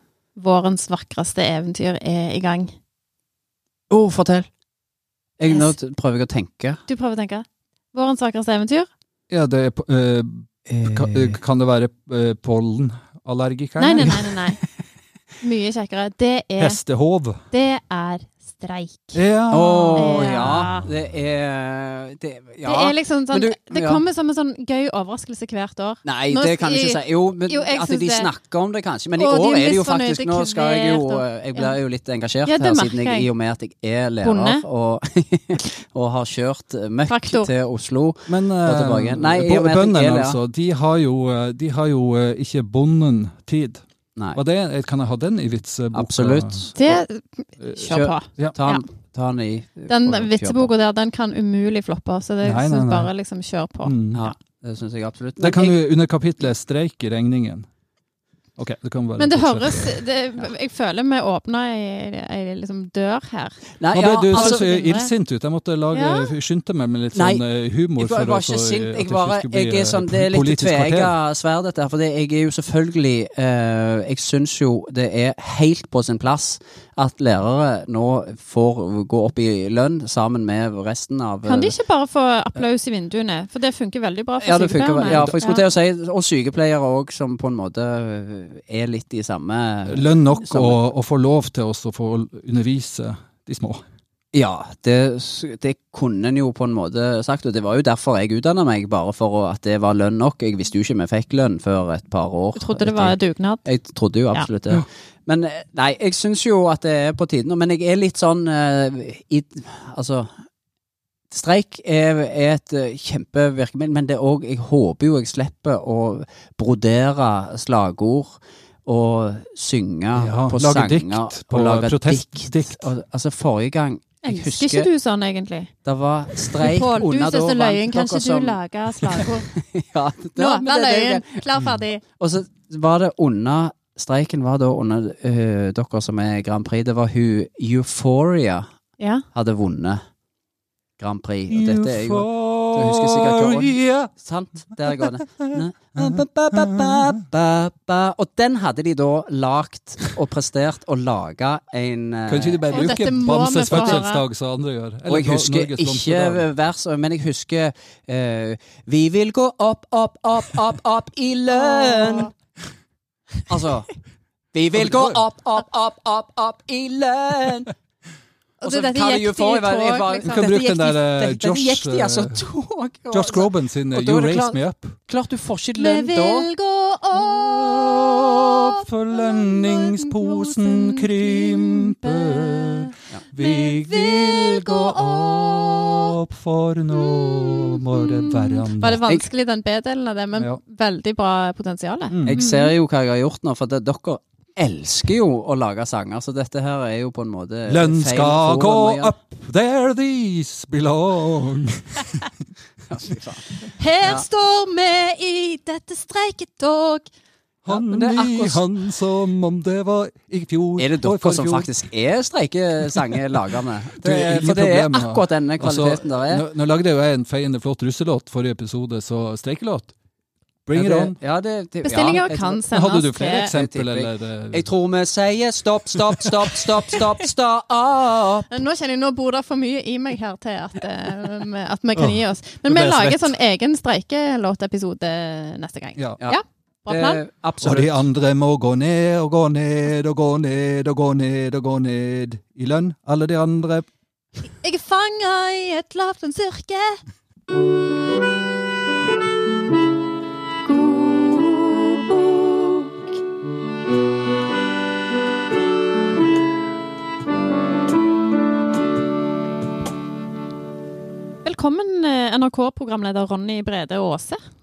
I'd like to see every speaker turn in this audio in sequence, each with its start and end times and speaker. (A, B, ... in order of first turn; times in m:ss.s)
0:00.4-0:02.8 A
0:03.9-0:04.5 B
0:05.4-0:06.8 B
0:05.5-0:05.7 A
0:06.9-0:08.9 A
0:09.3-0:14.4 C
0:10.7-0:11.4 B
0:13.8-0:14.6 A
0:15.4-0:16.8 A
0:16.6-0:17.4 C
0:17.5-0:19.2 A
0:19.1-0:20.7 C
0:19.5-0:24.0 B
0:20.0-0:20.9 A
0:22.6-0:28.3 A
0:26.0-0:40.4 B
0:29.2-0:31.8 A
0:32.5-0:33.3 A
0:34.2-0:34.6 A
0:37.1-0:37.5 A
0:38.3-0:47.0 C
0:45.9-0:46.8 B
0:46.8-0:48.8 A
0:47.6-0:48.6 C
0:47.9-0:50.7 B
0:49.9-0:54.0 A
0:52.4-0:53.1 C
0:53.8-0:54.3 C
0:54.1-0:55.8 B
0:55.4-0:57.7 C
0:58.6-1:00.0 C
0:59.2-1:03.6 A
1:03.8-1:04.6 B
1:03.9-1:11.1 C
1:04.3-1:05.1 A
1:05.9-1:06.3 A
1:07.1-1:07.4 B
1:08.0-1:21.7 B
1:21.4-1:25.7 A
1:24.4-1:30.8 B
1:25.0-1:25.3 C
1:29.9-1:33.8 C
1:34.3-1:50.3 B
1:42.6-1:43.7 A
1:51.3-2:04.9 B
2:00.2-2:02.9 C
2:04.2-2:05.7 A
2:05.8-2:11.4 B
2:06.5-2:09.5 A
2:10.4-2:12.0 A
2:12.2-2:18.7 B
2:19.0-2:19.2 A
2:19.3-2:20.0 B
2:21.0-2:33.0 B
2:21.5-2:24.1 C
2:24.8-2:27.2 C
2:32.3-2:36.5 C
2:32.7-2:34.2 A
2:35.1-2:42.3 B
2:41.5-2:42.3 A
2:43.5-2:43.9 B
2:44.5-2:47.7 B
2:44.7-2:45.2 C
2:48.6-2:50.6 A
2:48.6-2:56.5 B
2:50.3-2:52.4 C
2:53.1-2:55.0 C
2:55.8-3:06.2 A
2:57.6-3:09.1 C
3:06.9-3:12.7 A
3:10.4-3:10.6 C
3:12.1-3:12.4 C
3:12.2-3:19.2 B
3:17.7-3:22.3 C
3:22.9-3:23.5 B
3:23.7-3:27.1 A
3:24.0-3:24.3 B
3:27.6-3:31.7 C
3:27.7-3:28.6 B
3:30.8-3:36.5 B
3:34.0-3:39.9 C
3:40.7-3:41.2 C
3:40.7-3:42.6 B
3:41.8-3:43.5 A
3:42.7-3:44.7 C
3:43.5-3:48.6 B
3:48.5-3:57.2 A
3:52.0-3:53.4 C
3:56.2-3:58.0 B
3:57.6-4:03.9 C
4:04.6-4:07.0 A
4:10.6-4:13.0 A
4:21.4-4:24.4 A